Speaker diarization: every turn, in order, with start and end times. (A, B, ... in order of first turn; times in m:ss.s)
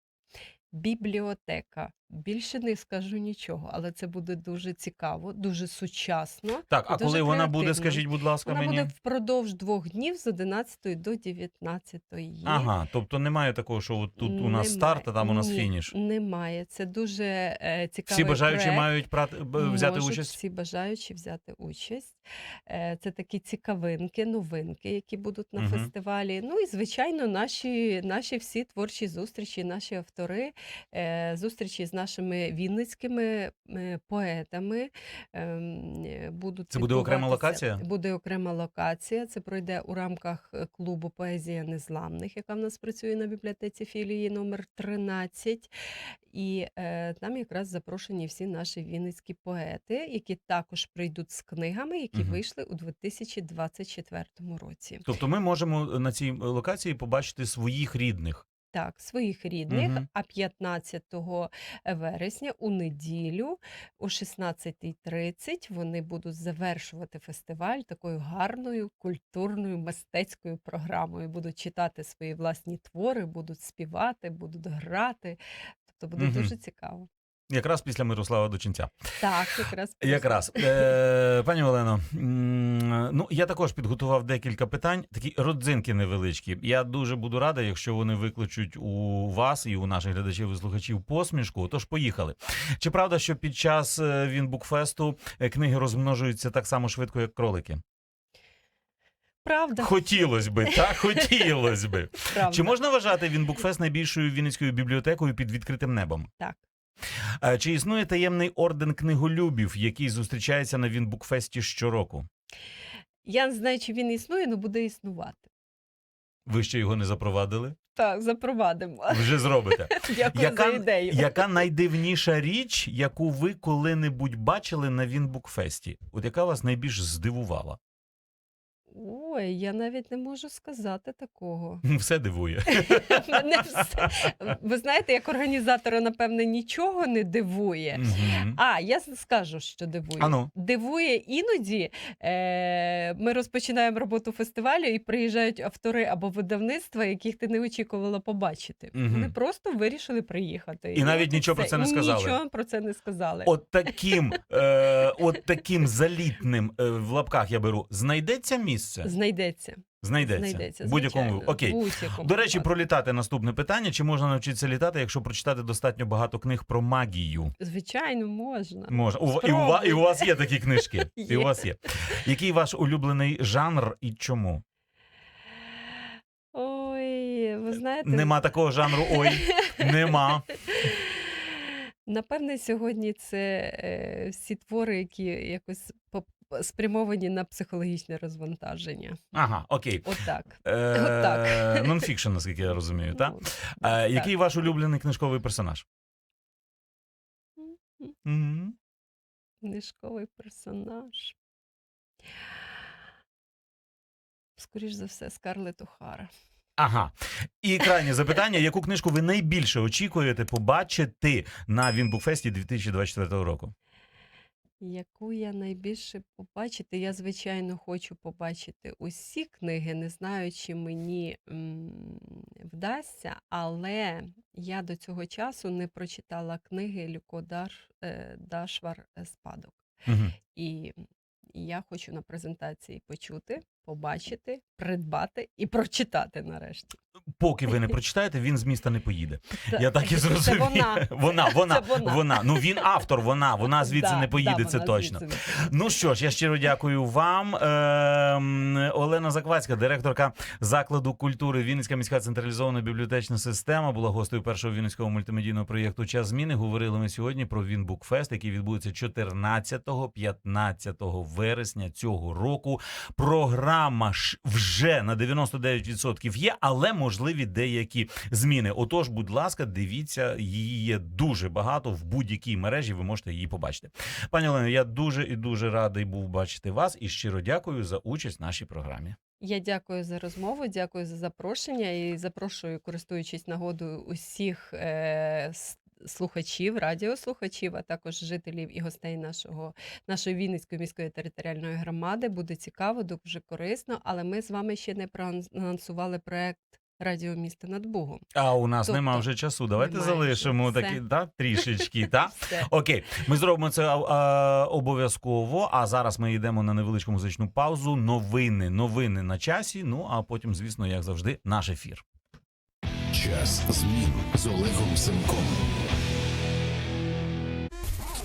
0:00.7-0:12.7 A
0:06.7-0:08.9 B
0:12.4-0:15.9 B
0:14.2-0:18.9 A
0:18.1-0:20.4 B
0:19.6-0:45.7 A
0:25.6-0:25.9 B
0:36.7-0:37.8 B
0:46.3-0:55.0 A
0:52.1-0:52.4 B
0:55.0-0:58.5 B
0:58.7-1:15.4 A
0:59.7-1:00.1 B
1:15.9-1:17.1 A
1:16.2-1:16.5 B
1:17.5-1:19.0 B
1:19.2-1:20.9 A
1:20.0-1:37.8 B
1:39.4-1:41.5 A
1:39.8-1:46.3 B
1:42.3-1:42.8 A
1:47.4-1:52.2 B
1:53.2-1:55.5 A
1:56.4-1:57.8 B
1:58.0-2:01.6 A
1:59.1-2:07.8 B
2:08.9-2:11.8 A
2:11.8-2:14.3 B
2:12.6-2:33.6 A
2:17.9-2:18.6 B
2:20.2-2:20.5 B
2:28.9-2:29.3 B
2:30.9-2:32.4 B
2:33.4-2:39.1 B
2:39.0-2:42.7 A
2:40.0-2:47.5 B
2:47.6-2:51.6 A
2:48.9-2:54.6 B
2:56.5-2:58.3 A
2:58.0-3:00.5 B
2:58.9-3:00.1 A
3:00.6-3:09.2 A
3:09.3-3:10.1 B
3:10.0-3:12.1 A
3:10.6-3:15.8 B
3:13.1-3:14.3 A
3:17.6-3:18.1 A
3:18.2-3:18.8 B
3:19.6-3:21.4 A
3:24.6-3:26.3 A
3:26.8-3:33.7 B
3:34.8-3:49.8 A
3:50.0-3:50.4 B
3:50.5-3:51.0 A
3:51.5-3:57.0 A
3:57.4-4:39.2 B
3:59.7-4:02.8 A
4:03.7-4:05.8 A
4:39.4-4:58.2 A
4:58.3-5:12.0 B
4:58.8-5:01.0 A
5:01.6-5:02.7 A
5:13.1-5:15.8 C